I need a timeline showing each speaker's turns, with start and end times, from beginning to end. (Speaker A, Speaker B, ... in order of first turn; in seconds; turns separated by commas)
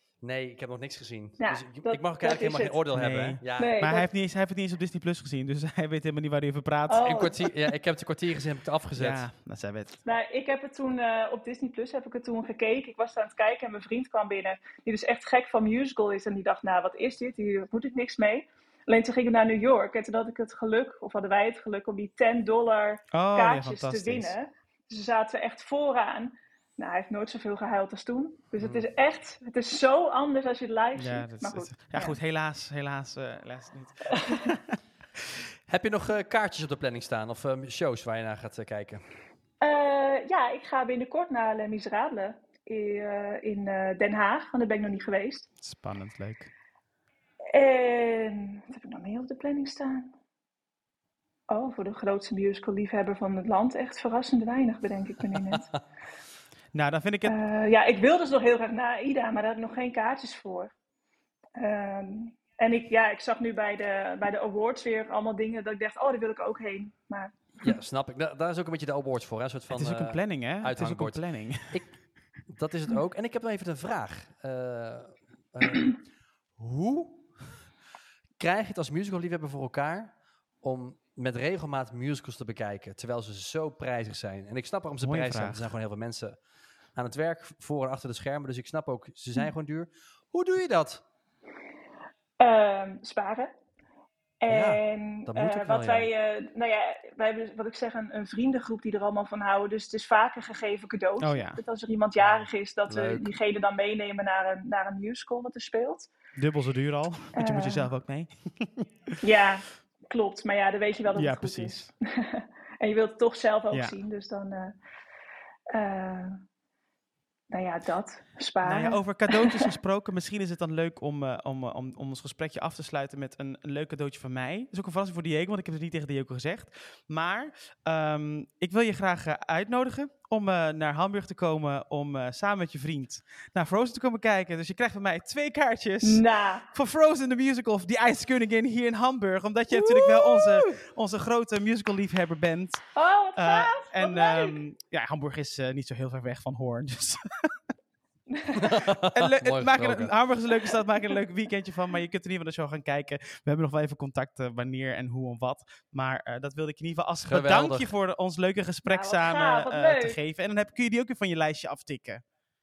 Speaker A: 0.2-3.8, Speaker B: 1.4-2.8, Speaker C: 2.9-7.3, Speaker B: 3.6-4.1, Speaker B: 6.9-7.5, Speaker A: 7.0-9.2, Speaker C: 8.9-10.0, Speaker B: 10.1-32.2, Speaker C: 23.1-24.3, Speaker A: 28.6-28.9, Speaker C: 30.9-34.8, Speaker B: 34.1-34.5, Speaker A: 35.7-39.0, Speaker B: 39.6-45.5, Speaker C: 45.6-46.5, Speaker B: 47.5-50.1, Speaker B: 51.5-55.7, Speaker A: 55.5-55.8, Speaker C: 56.7-57.3, Speaker B: 57.2-60.7, Speaker B: 61.6-67.8, Speaker A: 67.6-71.9, Speaker C: 69.7-71.8, Speaker A: 72.5-76.0, Speaker A: 76.6-77.5, Speaker A: 78.4-86.4, Speaker C: 85.0-85.7, Speaker A: 86.9-91.0, Speaker B: 92.4-93.5, Speaker B: 94.4-106.1, Speaker A: 94.5-96.1, Speaker C: 101.2-101.6, Speaker A: 102.2-103.3, Speaker C: 106.3-109.1, Speaker B: 107.3-107.9, Speaker B: 109.2-114.8, Speaker C: 111.1-111.8, Speaker B: 115.7-116.4, Speaker B: 117.5-119.7, Speaker C: 118.6-147.6, Speaker B: 136.0-136.7, Speaker B: 139.8-140.7, Speaker B: 142.9-144.6, Speaker B: 148.3-148.6, Speaker A: 148.5-150.1, Speaker C: 149.1-162.2, Speaker A: 157.2-157.9, Speaker B: 158.8-160.2